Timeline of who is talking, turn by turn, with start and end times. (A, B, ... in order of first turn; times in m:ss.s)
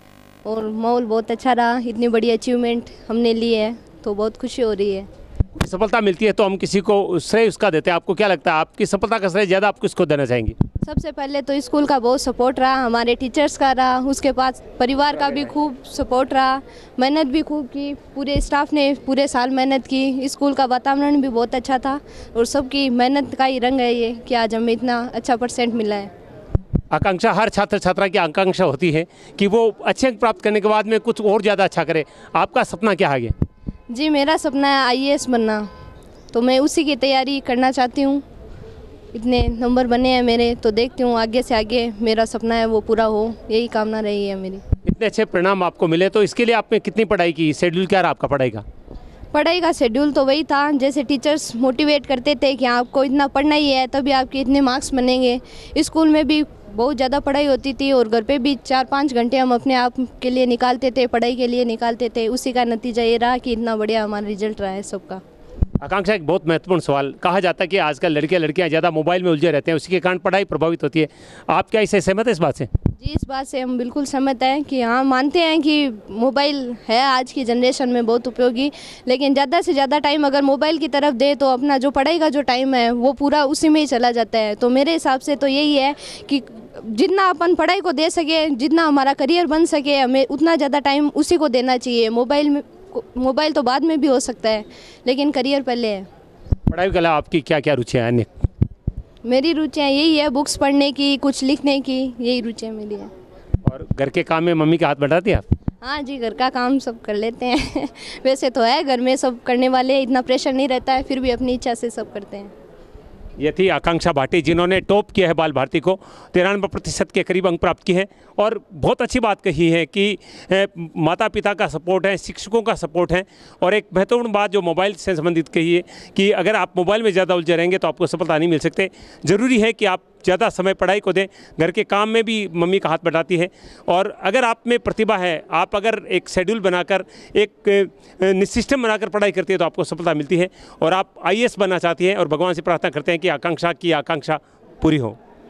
0:00.4-0:05.1 A
0:05.6-0:10.6 B
0:10.8-0:26.1 A
0:26.9-0:33.3 B
0:33.9-0:35.7 A
0:36.3-0:38.2 A
0:39.1-0:44.6 A
0:44.9-0:48.6 B
0:49.3-1:05.2 A
1:05.8-1:12.7 B
1:13.0-1:36.1 A
1:36.7-1:38.3 B
1:39.2-1:43.1 A
1:43.7-1:45.4 B
1:45.8-1:52.5 A
1:53.4-2:25.2 B